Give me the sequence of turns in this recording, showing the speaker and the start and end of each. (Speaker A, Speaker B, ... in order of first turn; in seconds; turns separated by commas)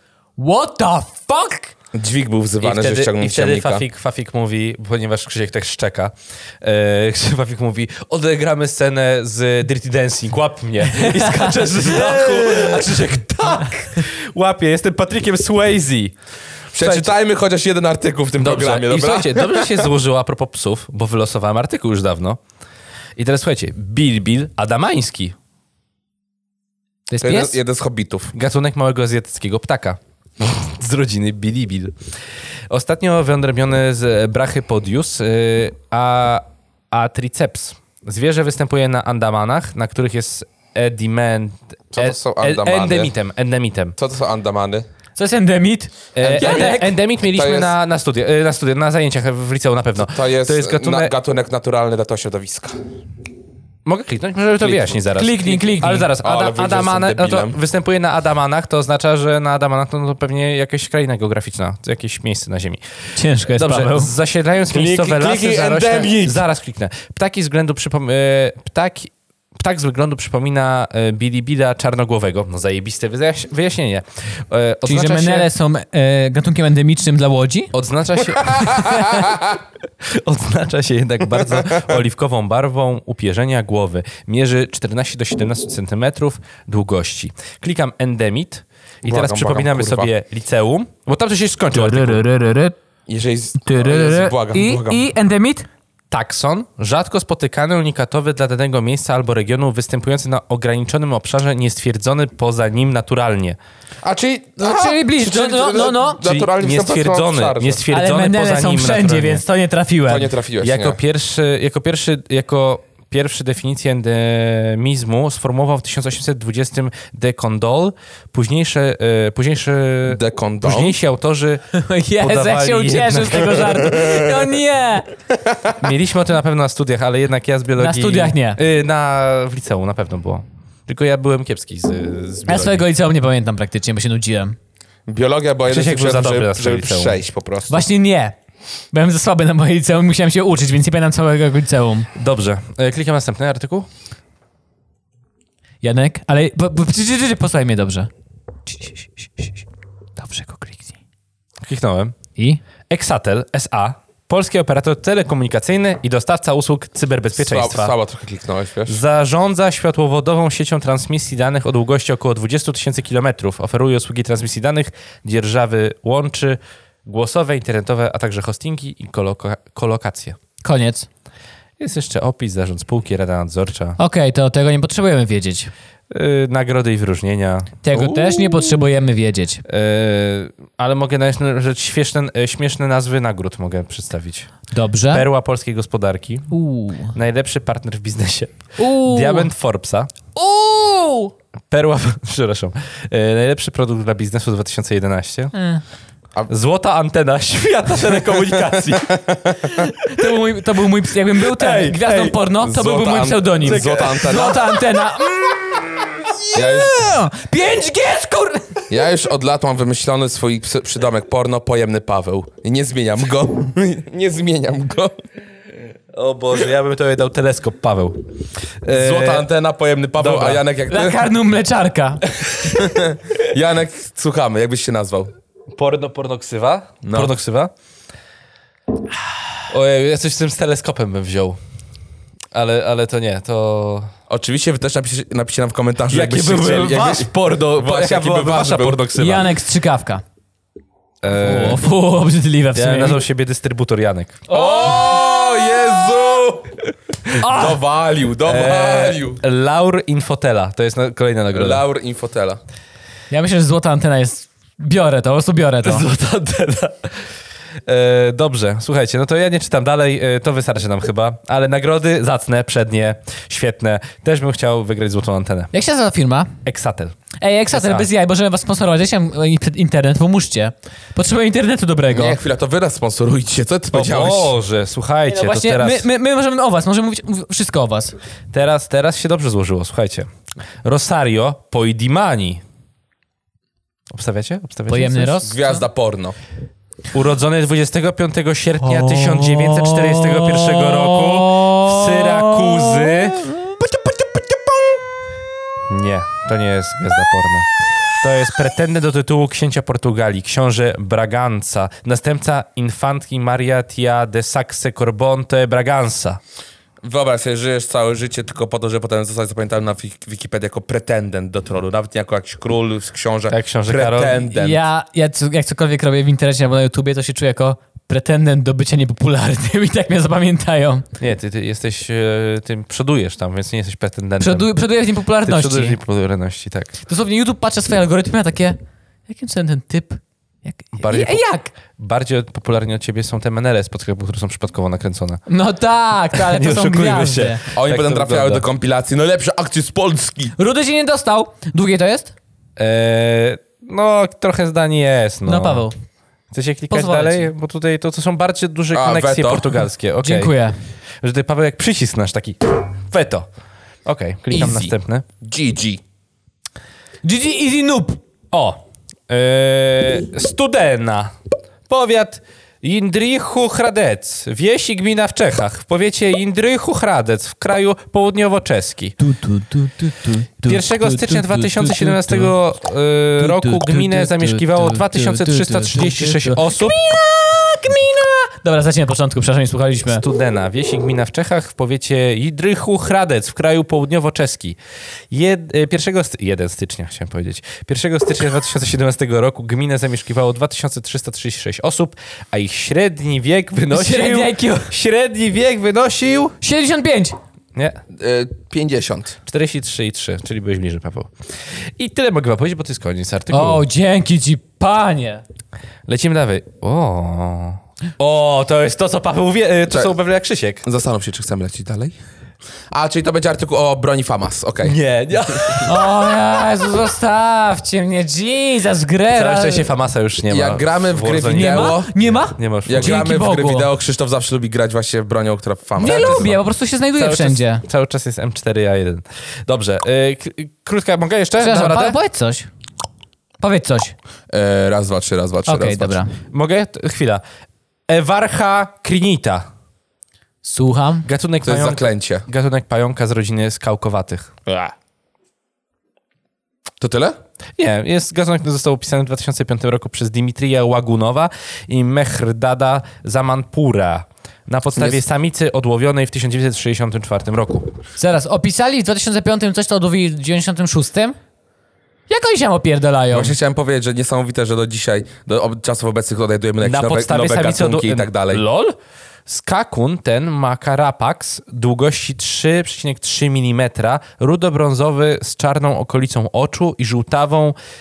Speaker A: 0.4-1.7, Speaker B: 1.9-3.9, Speaker C: 2.6-16.1, Speaker A: 11.0-12.7, Speaker B: 16.7-19.9, Speaker C: 16.8-17.1, Speaker C: 18.4-22.4, Speaker C: 23.2-25.4, Speaker A: 27.1-27.6, Speaker B: 27.2-28.3, Speaker C: 28.3-31.9, Speaker C: 32.7-44.0, Speaker B: 41.9-43.1, Speaker B: 44.0-44.9, Speaker A: 45.2-46.9, Speaker C: 46.1-51.1, Speaker B: 46.2-47.7, Speaker B: 50.0-52.8, Speaker C: 53.9-62.8, Speaker B: 54.6-55.6, Speaker A: 55.1-56.1, Speaker B: 56.2-57.6, Speaker A: 63.1-64.1, Speaker C: 63.5-75.5, Speaker B: 64.7-66.4, Speaker A: 74.8-77.7, Speaker C: 77.7-92.2, Speaker A: 78.7-79.1, Speaker B: 89.0-90.1, Speaker A: 91.7-92.8, Speaker B: 93.1-95.0, Speaker A: 93.6-95.7, Speaker C: 96.1-103.6, Speaker B: 104.0-107.8, Speaker A: 104.6-106.2, Speaker C: 106.2-109.4, Speaker A: 107.9-110.3, Speaker B: 110.1-111.0, Speaker C: 110.6-121.7, Speaker B: 120.1-121.0, Speaker A: 121.7-125.1, Speaker C: 122.2-124.0, Speaker B: 125.5-125.8, Speaker C: 125.8-132.8, Speaker A: 127.8-128.6, Speaker A: 132.5-134.6, Speaker B: 135.1-137.8, Speaker C: 135.7-137.2, Speaker A: 137.7-138.3, Speaker A: 138.9-142.1, Speaker C: 142.2-143.9, Speaker A: 145.8-148.1, Speaker A: 148.7-149.7, Speaker A: 150.2-151.0, Speaker C: 151.6-152.2, Speaker A: 152.4-152.6, Speaker C: 152.9-157.9, Speaker B: 157.3-159.0, Speaker C: 158.9-170.4, Speaker A: 170.6-171.1, Speaker C: 171.8-174.0, Speaker A: 174.0-175.7, Speaker C: 176.1-178.8, Speaker A: 177.8-179.6, Speaker C: 179.7-184.5, Speaker A: 184.7-185.2, Speaker C: 185.1-186.5, Speaker A: 186.5-187.1, Speaker C: 187.1-190.1, Speaker A: 188.8-189.5, Speaker A: 190.3-191.3, Speaker C: 191.7-195.5, Speaker A: 195.5-195.8, Speaker C: 196.5-199.2, Speaker B: 198.6-199.8, Speaker A: 199.8-208.8, Speaker C: 201.4-202.4, Speaker B: 202.6-204.6, Speaker C: 203.6-204.6, Speaker B: 206.5-207.0, Speaker B: 208.9-215.2, Speaker C: 216.1-218.2, Speaker C: 218.8-219.5, Speaker B: 218.9-221.3, Speaker C: 220.2-220.6, Speaker A: 220.9-222.2, Speaker B: 222.7-225.3, Speaker C: 225.8-227.7, Speaker B: 227.0-227.3, Speaker C: 229.7-231.6, Speaker C: 232.5-234.1, Speaker B: 234.3-239.0, Speaker C: 236.1-239.5, Speaker A: 239.2-240.2, Speaker C: 241.2-241.8, Speaker A: 241.3-243.2, Speaker C: 242.8-244.4, Speaker A: 244.5-245.4, Speaker B: 244.5-246.8, Speaker A: 247.3-247.8, Speaker B: 247.4-249.4, Speaker C: 248.4-251.8, Speaker B: 251.5-252.6, Speaker A: 253.3-256.1, Speaker C: 255.8-257.1, Speaker C: 257.9-265.7, Speaker A: 265.7-266.5, Speaker C: 266.6-267.2, Speaker A: 267.4-272.4, Speaker C: 267.7-268.1, Speaker B: 272.1-274.5, Speaker C: 273.9-276.1, Speaker A: 275.3-278.1, Speaker C: 278.5-280.3, Speaker C: 280.8-282.6, Speaker C: 284.1-285.4, Speaker A: 284.9-285.8, Speaker B: 285.4-286.4, Speaker C: 287.1-293.5, Speaker A: 288.9-294.4, Speaker C: 295.9-297.7, Speaker C: 298.2-306.4, Speaker B: 307.0-314.8, Speaker C: 313.5-314.4, Speaker A: 314.5-321.1, Speaker C: 321.2-324.7, Speaker A: 324.4-326.0, Speaker C: 325.5-327.0, Speaker A: 327.1-331.7, Speaker C: 331.0-335.4, Speaker A: 335.5-337.6, Speaker C: 336.3-338.6, Speaker B: 337.8-340.6, Speaker A: 340.6-342.3, Speaker C: 342.8-345.9, Speaker A: 345.4-346.0, Speaker C: 346.5-350.5, Speaker A: 346.9-347.5, Speaker B: 348.9-349.8, Speaker A: 350.2-350.8, Speaker C: 351.2-353.5, Speaker C: 354.1-355.2, Speaker B: 354.5-356.0, Speaker A: 357.2-358.2, Speaker C: 358.5-361.3, Speaker C: 361.9-369.2, Speaker A: 369.2-372.6, Speaker C: 370.7-376.9, Speaker A: 373.4-380.2, Speaker C: 380.1-384.8, Speaker C: 385.3-396.6, Speaker A: 393.9-394.9, Speaker A: 396.6-397.4, Speaker B: 398.1-399.4, Speaker C: 399.5-403.8, Speaker A: 403.5-405.4, Speaker C: 406.1-410.8, Speaker B: 410.8-412.2, Speaker B: 412.9-415.0, Speaker C: 414.8-416.0, Speaker B: 415.5-415.8, Speaker A: 415.9-419.9, Speaker C: 419.3-423.2, Speaker B: 420.5-422.1, Speaker A: 421.5-423.9, Speaker B: 422.9-426.5, Speaker A: 426.0-427.8, Speaker C: 426.0-426.6, Speaker C: 427.2-432.2, Speaker A: 431.6-432.7, Speaker A: 433.6-434.1, Speaker B: 434.5-436.2, Speaker A: 435.7-436.3, Speaker C: 436.5-437.4, Speaker C: 438.1-439.7, Speaker A: 440.6-441.3, Speaker C: 441.3-444.5, Speaker B: 441.6-442.5, Speaker B: 444.7-444.9, Speaker B: 447.0-447.4, Speaker C: 447.8-457.9, Speaker A: 458.2-461.4, Speaker A: 462.3-463.6, Speaker B: 463.3-468.6, Speaker C: 466.8-468.9, Speaker C: 469.5-477.8